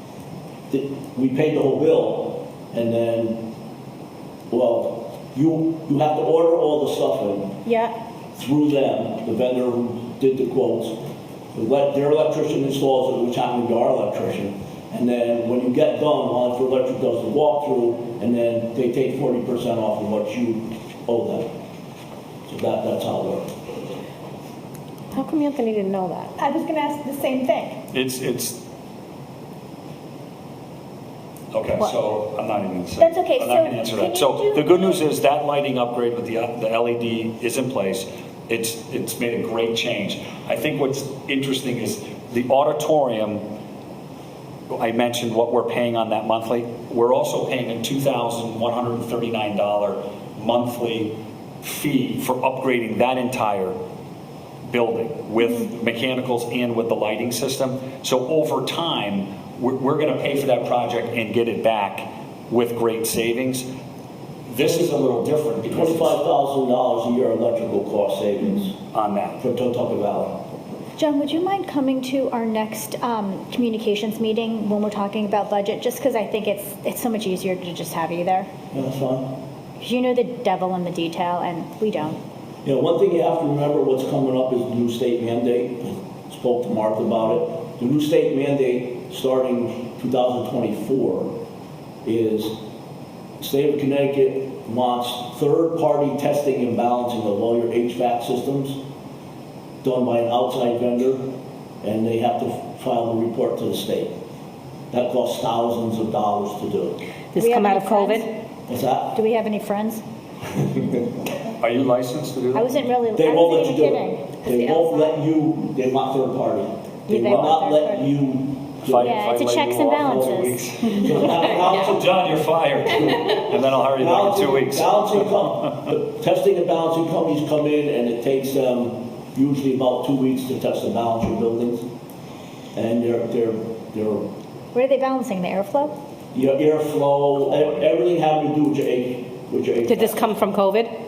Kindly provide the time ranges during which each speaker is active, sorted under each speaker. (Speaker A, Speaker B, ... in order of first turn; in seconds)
Speaker A: 0.7-3.5, 4.5-7.6, 8.3-11.0, 11.5-21.5, 22.5-23.5, 65.7-68.8, 69.4-70.4, 78.7-79.3, 82.6-91.3, 92.0-92.6, 93.4-98.8, 99.8-101.2, 101.8-104.1, 104.9-107.0, 108.7-109.2, 113.2-119.2, 120.0-122.1, 122.9-131.8, 132.7-134.2, 136.3-140.2
Speaker B: 7.6-7.9, 26.4-27.8, 33.0-35.0, 71.0-78.5, 79.8-82.2, 107.4-108.3, 109.1-110.0, 112.5-114.8, 117.1-118.1, 119.0-121.1, 134.7-135.9
Speaker C: 25.1-26.3, 107.3-108.3, 139.9-140.9
Speaker D: 27.9-28.6, 31.5-43.4, 44.7-53.8, 54.6-63.7, 64.5-66.2, 68.9-69.4, 111.6-112.9, 118.8-125.3, 137.4-137.9